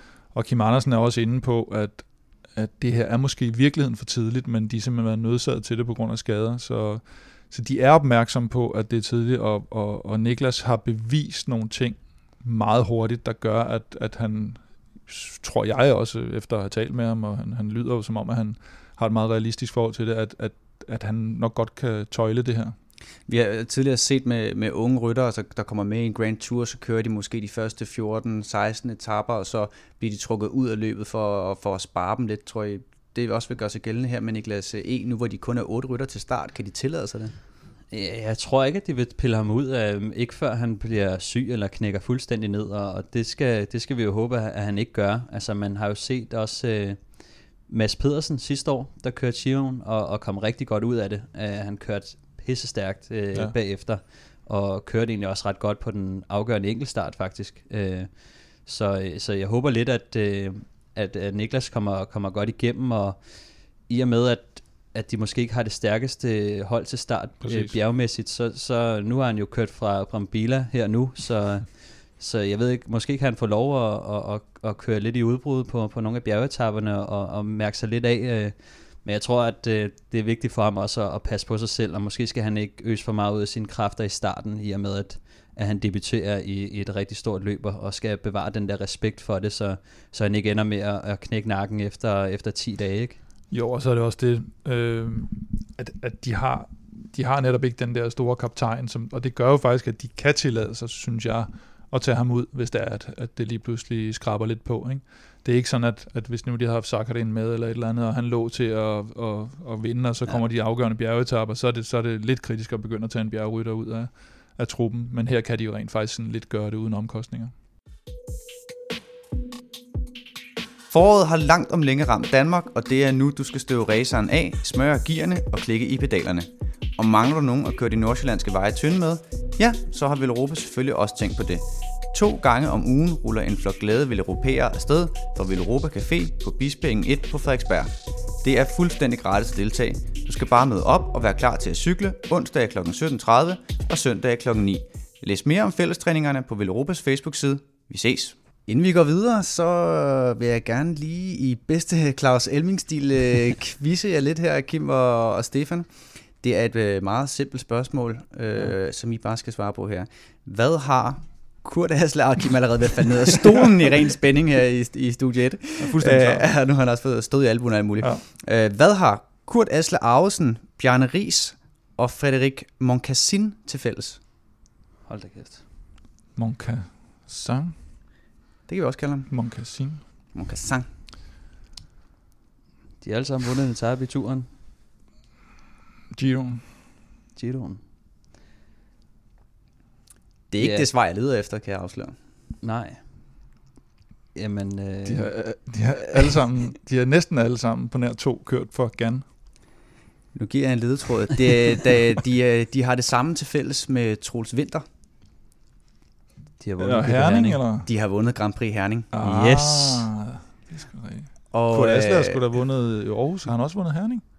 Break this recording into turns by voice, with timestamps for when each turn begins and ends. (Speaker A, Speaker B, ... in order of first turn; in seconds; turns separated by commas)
Speaker A: 0.3-22.8, Speaker B: 23.3-37.4, Speaker C: 37.9-93.2, Speaker A: 67.4-67.8, Speaker A: 93.5-117.5, Speaker B: 120.9-137.9, Speaker B: 138.4-174.2, Speaker A: 165.8-166.5, Speaker C: 175.1-175.7, Speaker A: 176.4-177.8, Speaker B: 178.7-179.3, Speaker A: 179.3-180.1, Speaker B: 180.3-180.9, Speaker C: 183.0-184.5, Speaker A: 186.1-186.7, Speaker C: 187.4-187.8, Speaker B: 190.5-192.2, Speaker C: 190.6-190.9, Speaker C: 192.6-193.0, Speaker C: 194.3-195.3, Speaker A: 195.1-199.2, Speaker B: 200.3-204.9, Speaker C: 206.6-207.6, Speaker A: 206.8-207.9, Speaker B: 207.8-209.1, Speaker A: 209.1-214.2, Speaker C: 209.2-210.1, Speaker B: 211.5-212.4